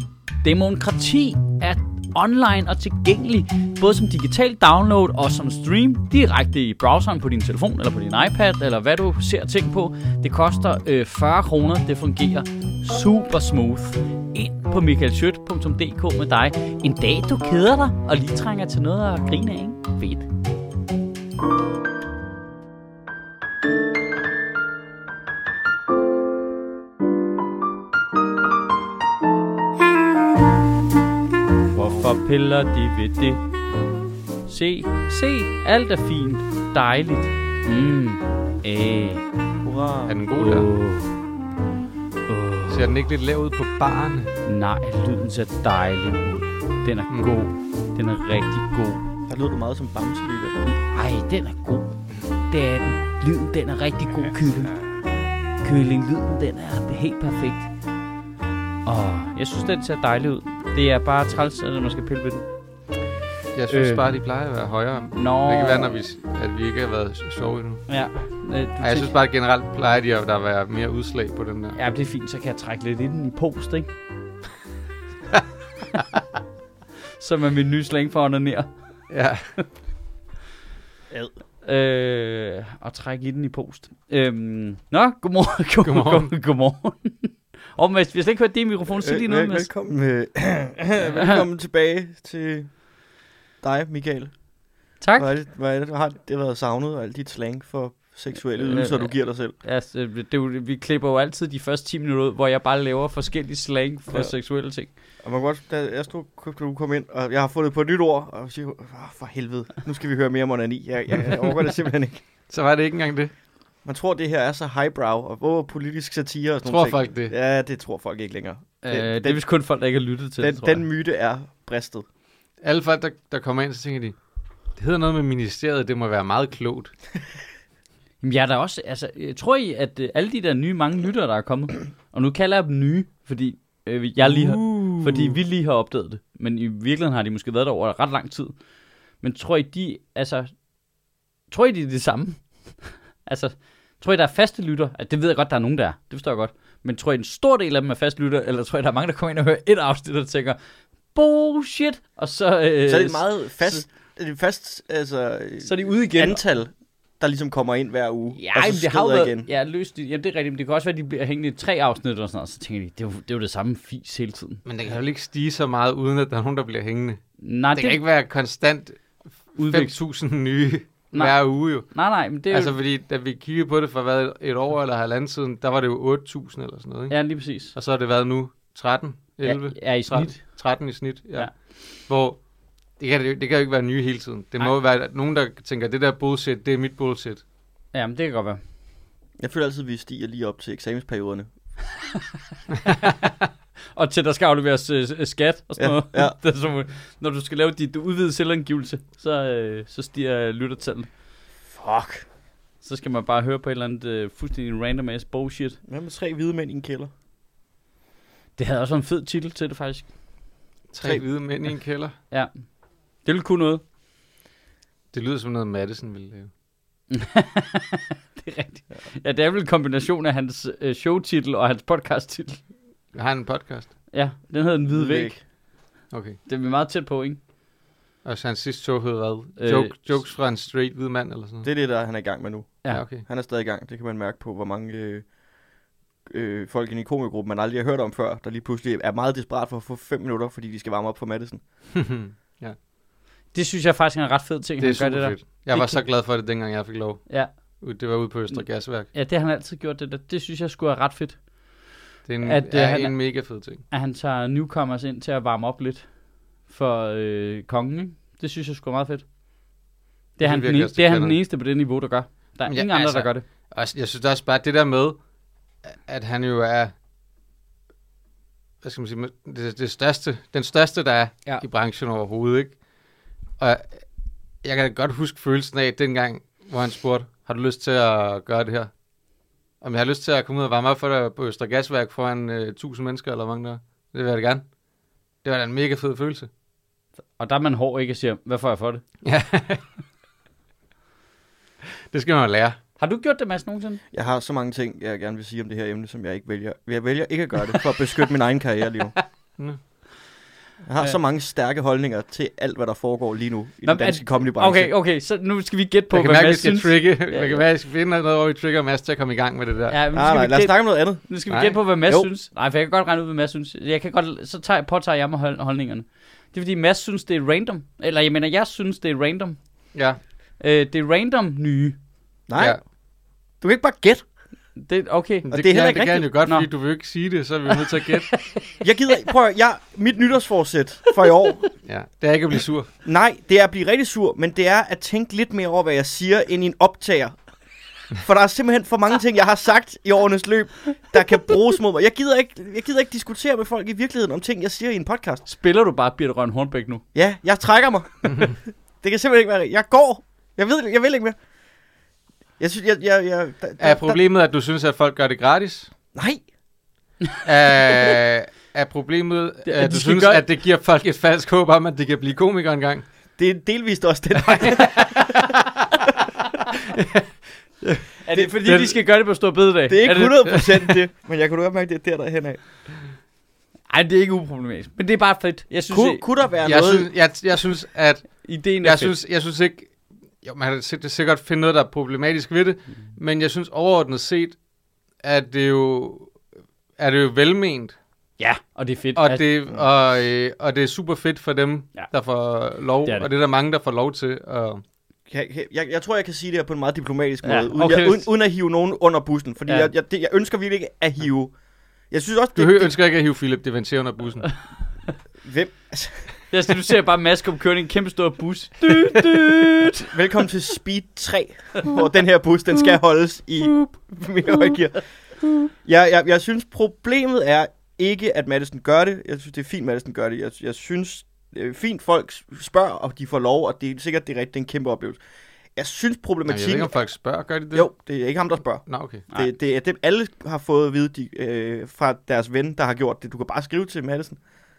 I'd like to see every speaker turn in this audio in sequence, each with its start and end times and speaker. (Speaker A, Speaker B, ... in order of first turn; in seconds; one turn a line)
Speaker A: 0.4-20.3
Speaker A: 31.7-33.4
Speaker A: 34.5-39.2
Speaker B: 39.6-40.2
Speaker C: 40.1-40.7
Speaker A: 40.4-41.2
Speaker A: 42.3-43.0
Speaker C: 42.7-44.3
Speaker A: 44.4-49.0
Speaker B: 49.3-50.6
Speaker A: 50.6-54.7
Speaker A: 55.6-57.7
Speaker A: 58.9-62.5
Speaker C: 63.5-67.9
Speaker A: 63.7-64.1
Speaker A: 65.1-66.0
Speaker A: 67.9-69.1
Speaker C: 68.8-71.8
Speaker A: 71.7-73.9
Speaker A: 77.2-78.7
Speaker C: 79.1-79.4
Speaker A: 81.6-89.7
Speaker C: 85.8-86.3
Speaker B: 89.0-92.8
Speaker A: 91.0-91.4
Speaker B: 93.6-94.3
Speaker A: 95.0-95.3
Speaker B: 95.2-99.5
Speaker A: 98.5-104.9
Speaker B: 105.2-112.2
Speaker C: 112.5-113.3
Speaker B: 113.8-119.4
Speaker C: 116.7-117.3
Speaker A: 118.8-120.8
Speaker B: 120.4-122.0
Speaker C: 122.6-124.1
Speaker C: 124.8-126.9
Speaker A: 128.2-138.5
Speaker B: 134.6-135.1
Speaker A: 139.2-140.5
Speaker A: 141.5-142.4
Speaker A: 143.2-150.6
Speaker A: 151.1-153.8
Speaker B: 152.9-159.5
Speaker A: 155.6-156.4
Speaker A: 158.3-164.6
Speaker C: 164.6-167.2
Speaker A: 167.4-168.0
Speaker C: 167.7-171.9
Speaker A: 169.6-169.9
Speaker A: 171.1-172.7
Speaker C: 172.5-177.2
Speaker A: 177.1-177.7
Speaker C: 177.7-182.4
Speaker A: 179.4-180.4
Speaker C: 183.0-187.4
Speaker A: 187.9-188.6
Speaker B: 189.4-191.5
Speaker A: 193.9-201.1
Speaker B: 195.8-196.3
Speaker B: 201.7-202.2
Speaker A: 202.8-205.8
Speaker B: 205.9-207.1
Speaker A: 208.6-210.1
Speaker C: 210.9-212.1
Speaker A: 213.2-213.8
Speaker C: 215.1-216.5
Speaker A: 217.1-222.6
Speaker C: 223.1-224.0
Speaker A: 224.1-225.3
Speaker B: 224.9-225.4
Speaker C: 226.1-226.4
Speaker A: 226.5-227.4
Speaker C: 228.2-231.7
Speaker A: 229.6-230.2
Speaker B: 231.6-235.2
Speaker C: 232.9-233.2
Speaker B: 236.2-241.6
Speaker C: 241.9-242.8
Speaker A: 243.5-246.0
Speaker C: 244.8-249.1
Speaker A: 249.1-251.4
Speaker C: 252.3-253.8
Speaker A: 252.4-253.2
Speaker A: 253.9-256.1
Speaker A: 256.7-259.2
Speaker A: 260.4-263.4
Speaker C: 260.4-261.4
Speaker C: 262.6-265.2
Speaker C: 265.9-266.9
Speaker C: 268.8-272.7
Speaker C: 273.6-274.0
Speaker C: 274.6-278.9
Speaker C: 279.8-284.6
Speaker C: 285.4-286.5
Speaker A: 287.4-289.0
Speaker C: 289.2-289.8
Speaker C: 292.1-292.8
Speaker A: 293.0-294.0
Speaker B: 294.1-299.1
Speaker B: 300.9-304.9
Speaker A: 303.8-307.6
Speaker C: 306.1-310.0
Speaker A: 309.9-319.6
Speaker B: 310.1-311.2
Speaker C: 311.5-311.8
Speaker A: 320.6-322.0
Speaker B: 322.5-322.8
Speaker B: 323.6-324.2
Speaker A: 324.8-325.6
Speaker C: 325.5-328.4
Speaker B: 325.5-326.3
Speaker A: 327.9-328.5
Speaker B: 328.8-331.6
Speaker C: 331.9-332.9
Speaker B: 333.0-337.4
Speaker B: 338.1-345.4
Speaker A: 345.4-347.0
Speaker B: 347.1-351.4
Speaker B: 352.6-354.2
Speaker C: 353.8-355.9
Speaker B: 356.1-356.4
Speaker C: 357.4-363.1
Speaker A: 359.6-360.4
Speaker B: 363.4-365.5
Speaker C: 364.4-366.2
Speaker C: 366.9-367.2
Speaker A: 368.2-370.6
Speaker B: 368.3-368.8
Speaker B: 369.9-372.6
Speaker A: 373.9-376.2
Speaker B: 375.9-377.1
Speaker C: 376.6-379.9
Speaker A: 378.4-379.1
Speaker C: 380.4-384.6
Speaker C: 385.2-386.3
Speaker C: 387.0-387.9
Speaker A: 388.4-389.4
Speaker C: 389.1-394.8
Speaker B: 395.3-401.5
Speaker A: 397.4-398.3
Speaker A: 399.6-399.9
Speaker B: 402.1-402.9
Speaker C: 402.6-404.5
Speaker B: 405.4-406.3
Speaker A: 406.5-410.1
Speaker B: 410.0-415.0
Speaker A: 413.6-413.9
Speaker A: 414.5-414.7
Speaker B: 415.7-425.2
Speaker B: 425.8-426.9
Speaker C: 426.5-427.9
Speaker B: 427.7-434.4
Speaker C: 428.9-429.2